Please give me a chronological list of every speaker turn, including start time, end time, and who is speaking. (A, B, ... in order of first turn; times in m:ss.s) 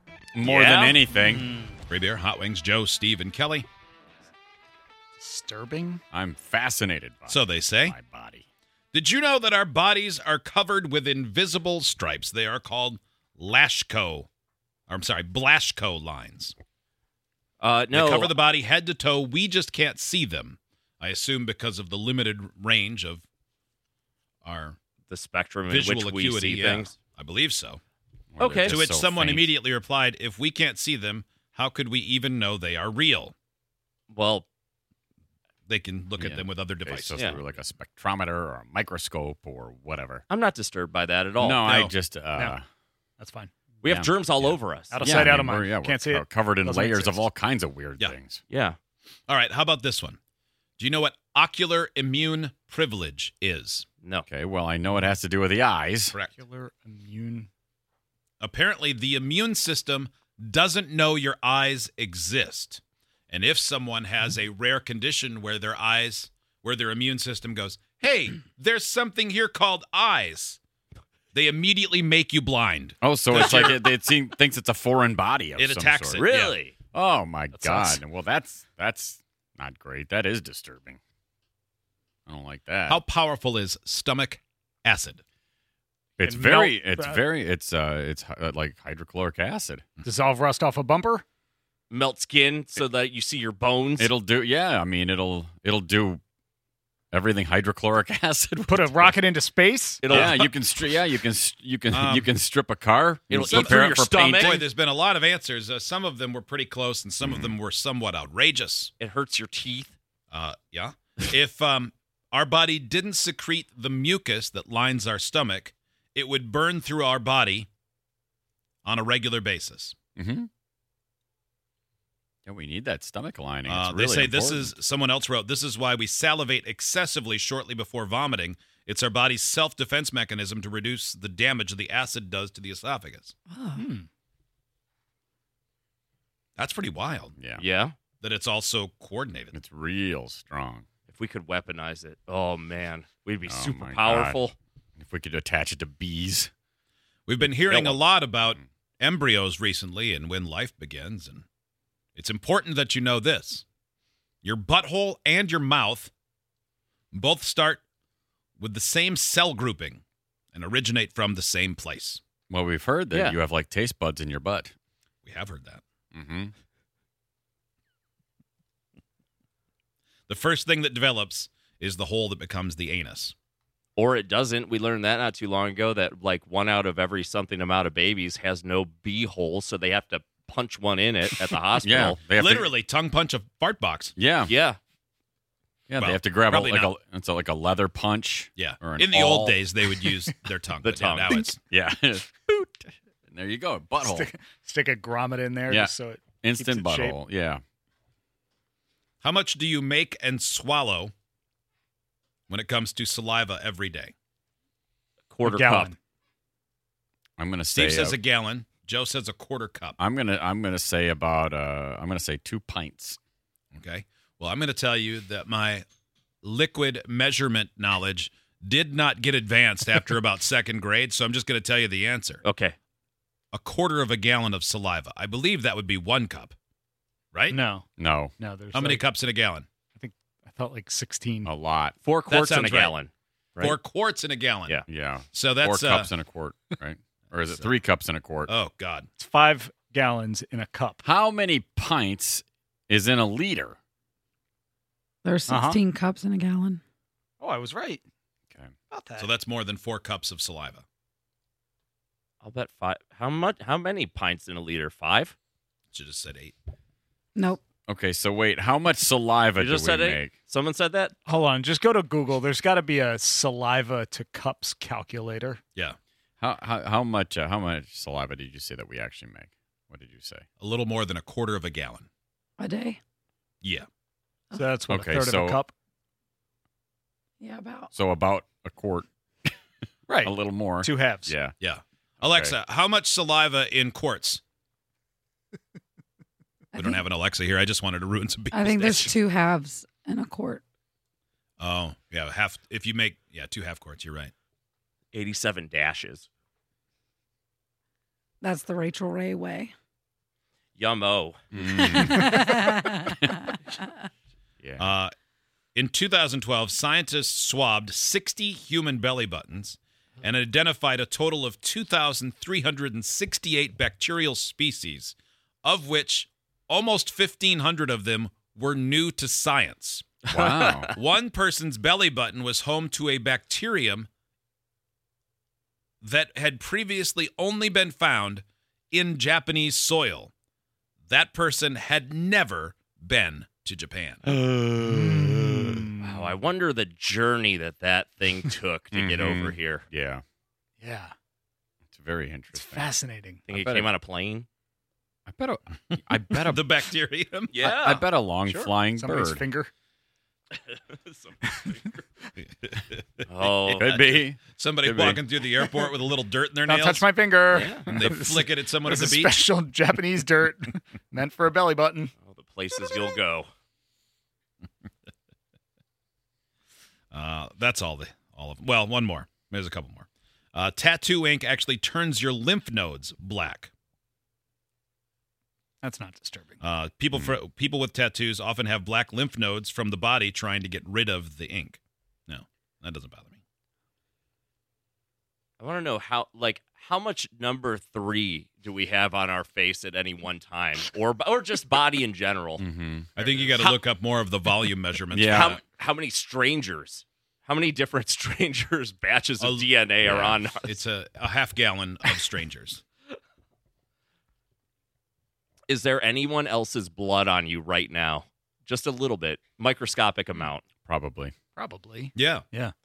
0:00.3-0:01.5 A
0:00.4-0:01.0 B
0:01.2-0:01.7 C
0:01.9-0:03.6 D
0:05.2-0:06.0 C
0:06.1-0:08.4 A
0:07.3-0:07.9 D
0:08.9-0:14.3 D
0:14.9-0:16.5 D
0:17.6-0:18.3 B
0:17.9-0:23.2 D
0:24.4-0:24.8 D
0:25.1-0:27.0 B
0:25.7-0:27.8 D
0:28.4-0:29.5 A
0:28.4-0:28.8 B
0:28.7-0:33.3 D
0:34.1-0:34.4 B
0:35.7-0:37.2 D
0:36.2-0:40.2 A
0:40.3-0:41.7 B
0:41.4-0:42.6 A
0:41.6-0:41.9 D
0:43.2-0:43.5 C
0:43.8-0:45.0 B
0:43.8-0:48.4 A
0:44.9-0:47.2 C
0:48.5-0:48.8 B
0:49.3-0:50.2 D
0:50.8-0:53.8 D
0:54.3-0:56.1 A
0:56.3-0:57.5 C
0:58.4-1:10.6 D
1:11.3-1:13.8 D
1:13.0-1:16.3 A
1:15.6-1:16.6 D
1:16.2-1:16.8 B
1:16.9-1:21.0 A
1:17.5-1:18.0 B
1:22.3-1:23.0 A
1:22.9-1:25.2 D
1:26.2-1:29.9 A
1:26.2-1:27.2 C
1:30.0-1:31.2 C
1:31.9-1:34.1 B
1:34.0-1:36.2 A
1:37.1-1:39.2 A
1:38.7-1:40.2 C
1:40.0-1:40.3 B
1:40.0-1:40.5 D
1:40.1-1:44.6 A
1:41.9-1:42.3 D
1:43.3-1:44.6 B
1:43.4-1:48.9 D
1:47.2-1:47.5 A
1:49.0-1:49.9 B
1:50.3-1:57.7 D
1:58.8-2:00.0 D
2:00.2-2:00.5 A
2:02.4-2:04.7 A
2:03.7-2:13.3 D
2:13.5-2:13.8 E
2:13.8-2:14.1 C
2:16.6-2:17.3 D
2:17.4-2:17.6 A
2:17.6-2:18.0 B
2:18.2-2:19.5 D
2:19.5-2:20.8 A
2:21.1-2:24.5 B
2:23.4-2:24.4 A
2:25.0-2:26.5 A
2:27.3-2:31.4 D
2:27.7-2:28.0 B
2:32.2-2:33.6 D
2:34.4-2:36.1 D
2:37.1-2:37.8 D
2:38.6-2:40.0 D
2:40.5-2:42.2 D
2:42.5-2:44.7 A
2:45.2-2:45.8 D
2:46.1-2:46.5 A
2:50.3-2:53.3 D
2:54.0-3:02.2 B
3:01.8-3:02.7 A
3:02.4-3:04.1 D
3:04.2-3:04.5 A
3:04.5-3:04.8 B
3:05.9-3:09.7 A
3:06.0-3:06.9 D
3:08.6-3:11.6 D
3:10.8-3:11.4 B
3:11.6-3:14.3 A
3:14.0-3:17.2 C
3:15.7-3:17.6 A
3:19.2-3:21.1 D
3:22.5-3:24.1 D
3:25.3-3:25.9 B
3:25.4-3:26.0 C
3:27.4-3:28.2 A
3:27.7-3:30.0 D
3:30.0-3:33.2 A
3:33.7-3:35.8 D
3:36.4-3:42.4 D
3:42.4-3:42.8 B
3:43.5-3:46.6 D
3:47.5-3:49.0 C
3:48.0-3:48.3 A
3:48.7-3:49.6 D
3:50.0-3:51.5 C
3:51.4-3:52.0 A
3:52.0-3:53.8 B
3:52.3-3:53.0 D
3:53.6-3:54.8 D
3:54.9-3:58.5 A
3:55.3-3:56.1 D
3:58.5-3:59.1 D
3:59.2-4:01.0 C
4:01.0-4:03.8 A
4:05.2-4:06.8 E
4:05.5-4:05.8 C
4:07.4-4:08.0 C
4:08.9-4:09.3 C
4:09.2-4:10.8 D
4:12.4-4:15.3 B
4:15.9-4:16.5 D
4:17.4-4:17.6 E
4:17.9-4:20.3 A
4:19.6-4:21.1 B
4:21.2-4:25.6 C
4:26.4-4:30.4 A
4:30.6-4:32.1 D
4:32.6-4:33.0 E
4:33.6-4:33.9 D
4:34.5-4:35.7 C
4:34.9-4:35.6 A
4:37.4-4:37.9 E
4:37.9-4:39.5 A
4:40.1-4:41.3 C
4:40.2-4:41.5 A
4:41.6-4:44.4 D
4:42.2-4:42.6 A
4:46.7-4:49.1 D
4:48.5-4:50.6 E
4:51.6-4:54.3 D
4:55.1-4:56.3 B
4:58.4-4:59.7 E
5:00.8-5:01.4 B
5:01.5-5:02.4 A
5:01.9-5:02.9 E
5:04.8-5:05.1 D
5:05.7-5:20.2 D
5:20.3-5:20.9 A
5:20.3-5:20.9 B
5:20.9-5:24.1 D
5:26.0-5:30.3 D
5:31.1-5:34.3 D
5:34.4-5:36.3 C
5:34.6-5:35.8 A
5:36.0-5:39.8 B
5:38.9-5:40.2 A
5:40.8-5:41.1 C
5:41.9-5:42.9 A
5:42.5-5:43.4 C
5:43.5-5:44.5 B
5:43.5-5:43.9 A
5:45.2-5:46.6 A
5:45.9-5:47.6 D
5:47.5-5:48.0 B
5:47.6-5:49.4 A
5:48.4-5:49.7 C
5:50.6-5:52.0 B
5:52.6-5:53.8 D
5:53.3-5:54.1 B
5:53.7-5:55.2 A
5:54.5-5:59.4 D
5:56.6-6:02.1 C
5:57.5-5:57.9 B
6:02.2-6:03.5 B
6:07.1-6:13.7 D
6:15.8-6:16.6 C
6:16.6-6:23.4 D
6:25.6-6:32.6 B
6:32.6-6:33.1 A
6:33.2-6:33.8 B
6:33.2-6:35.6 D
6:35.1-6:35.5 A
6:35.3-6:40.8 B
6:39.4-6:42.8 D
6:40.0-6:40.3 A
6:45.7-6:50.6 B
6:50.8-6:51.3 A
6:51.5-6:52.7 C
6:52.1-6:52.4 D